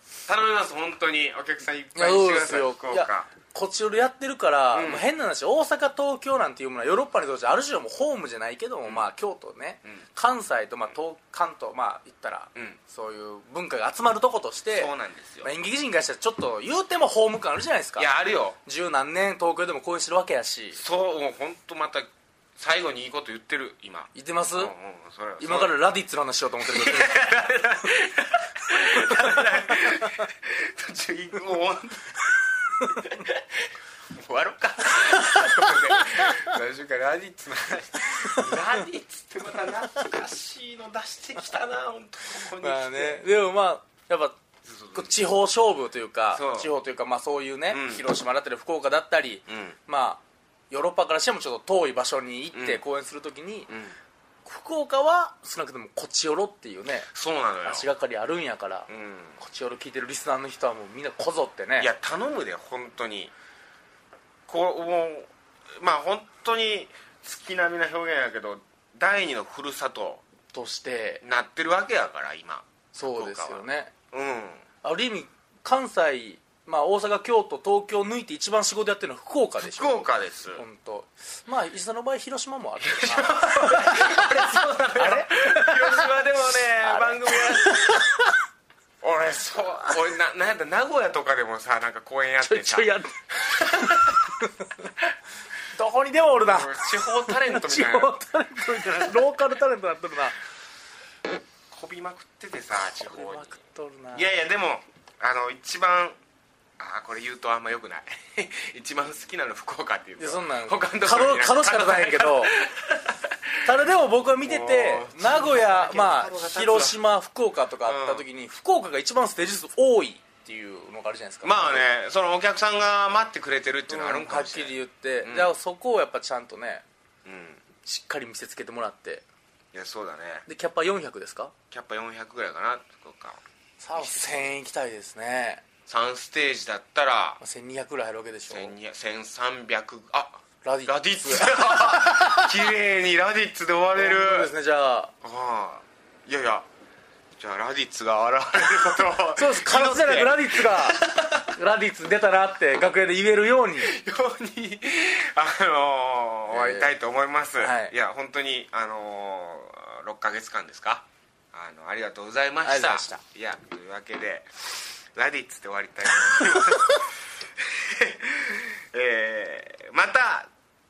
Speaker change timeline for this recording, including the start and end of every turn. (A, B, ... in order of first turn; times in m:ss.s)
0:00.3-0:03.3 A
0:02.0-0:14.9 B
0:04.7-0:05.1 A
0:14.7-0:15.5 A
0:15.4-0:18.1 B
0:18.0-0:18.6 A
0:18.6-0:20.8 B
0:20.8-0:25.8 A
0:24.1-0:24.7 B
0:25.4-0:27.2 B
0:26.6-0:43.2 A
0:35.3-0:36.5 B
0:38.2-0:38.6 B
0:42.6-0:44.4 B
0:44.6-0:45.2 A
0:44.9-0:53.7 B
0:46.3-0:46.7 A
0:47.7-0:48.1 A
0:49.5-0:49.8 A
0:52.5-0:52.8 A
0:53.7-0:54.0 A
0:54.4-0:57.1 B
0:57.1-0:57.9 A
0:57.6-1:01.9 B
0:58.9-0:59.4 A
1:01.8-1:03.3 A
1:04.5-1:10.2 A
1:10.5-1:11.2 B
1:11.2-1:14.6 A
1:12.9-1:13.9 B
1:14.8-1:20.0 B
1:19.6-1:20.6 A
1:20.6-1:26.1 B
1:22.8-1:28.1 A
1:26.8-1:28.4 B
1:29.0-1:34.2 A
1:32.4-1:33.2 B
1:35.7-1:40.4 B
1:36.4-1:38.1 A
1:38.8-1:39.2 A
1:41.7-1:43.6 A
1:42.8-1:44.3 B
1:44.1-1:46.2 A
1:46.8-1:53.7 A
1:50.2-1:52.6 B
1:53.6-2:01.8 B
1:54.4-1:57.0 A
1:57.8-1:58.3 A
2:01.4-2:05.5 A
2:03.9-2:06.8 B
2:07.2-2:07.6 A
2:07.8-2:09.2 B
2:09.7-2:10.5 A
2:10.5-2:11.5 B
2:11.7-2:13.4 A
2:13.8-2:15.6 B
2:14.0-2:14.5 A
2:15.9-2:17.4 A
2:17.4-2:18.7 B
2:18.5-2:24.5 A
2:20.6-2:22.5 B
2:24.0-2:25.1 B
2:25.2-2:26.7 A
2:27.4-2:31.5 A
2:29.4-2:34.0 B
2:33.8-2:50.5 A
2:36.5-2:36.9 B
2:37.6-2:37.9 B
2:42.6-2:43.2 B